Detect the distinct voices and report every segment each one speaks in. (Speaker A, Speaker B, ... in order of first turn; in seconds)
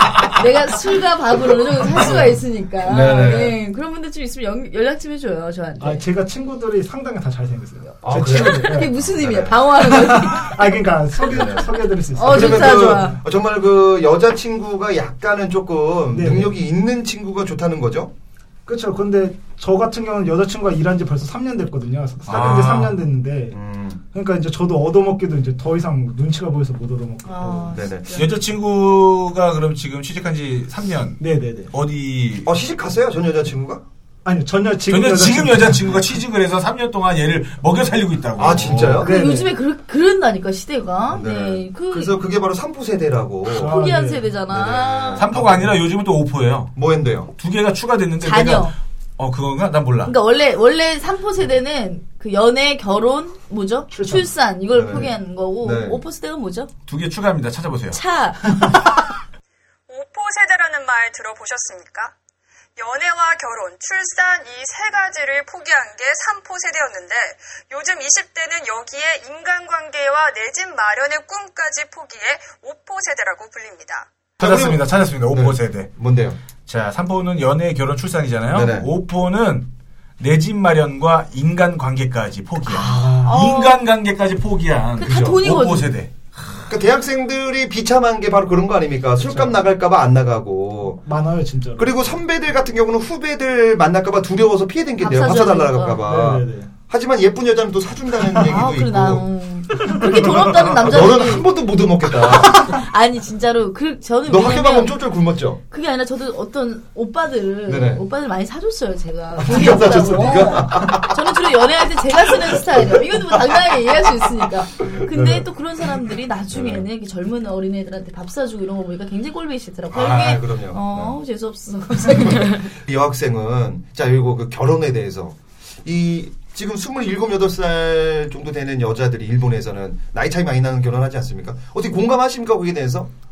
Speaker A: 0.2-6.0, 8.4-10.7, 12.1-13.2, 27.2-28.3, 39.0-42.2, 43.6-45.2, 48.2-48.8, 50.0-56.7, 57.9-58.4, 82.7-83.8, 85.0-85.9, 95.0-96.0, 98.4-101.5, 102.5-105.0, 105.7-122.6
Speaker B: 2.8-3.6, 8.0-9.8, 11.2-18.1, 23.5-24.0, 27.7-28.2, 32.4-33.8, 38.4-39.1, 41.1-43.8, 44.5-45.7, 46.7-47.3, 54.7-55.1, 55.6-56.0, 74.4-76.4, 78.5-78.9, 86.7-91.0, 91.8-99.2, 100.8-102.8, 104.2-105.6, 107.7-108.0, 109.4-111.2, 114.8-115.5, 116.5-116.9, 119.9-121.2, 122.1-133.1
Speaker C: 5.8-8.9, 9.9-13.1, 16.1-16.6, 18.6-23.6, 24.1-27.8, 31.2-31.7, 34.2-36.0, 39.0-39.5, 43.5-44.3, 53.9-54.2, 89.2-89.5, 90.9-92.0, 96.0-96.7, 99.9-100.6
Speaker D: 22.2-23.0, 28.1-32.5, 34.9-39.0, 45.2-46.7, 47.4-50.1, 56.9-59.0, 74.4-75.9, 76.7-86.6
Speaker E: 59.9-62.1, 62.8-74.1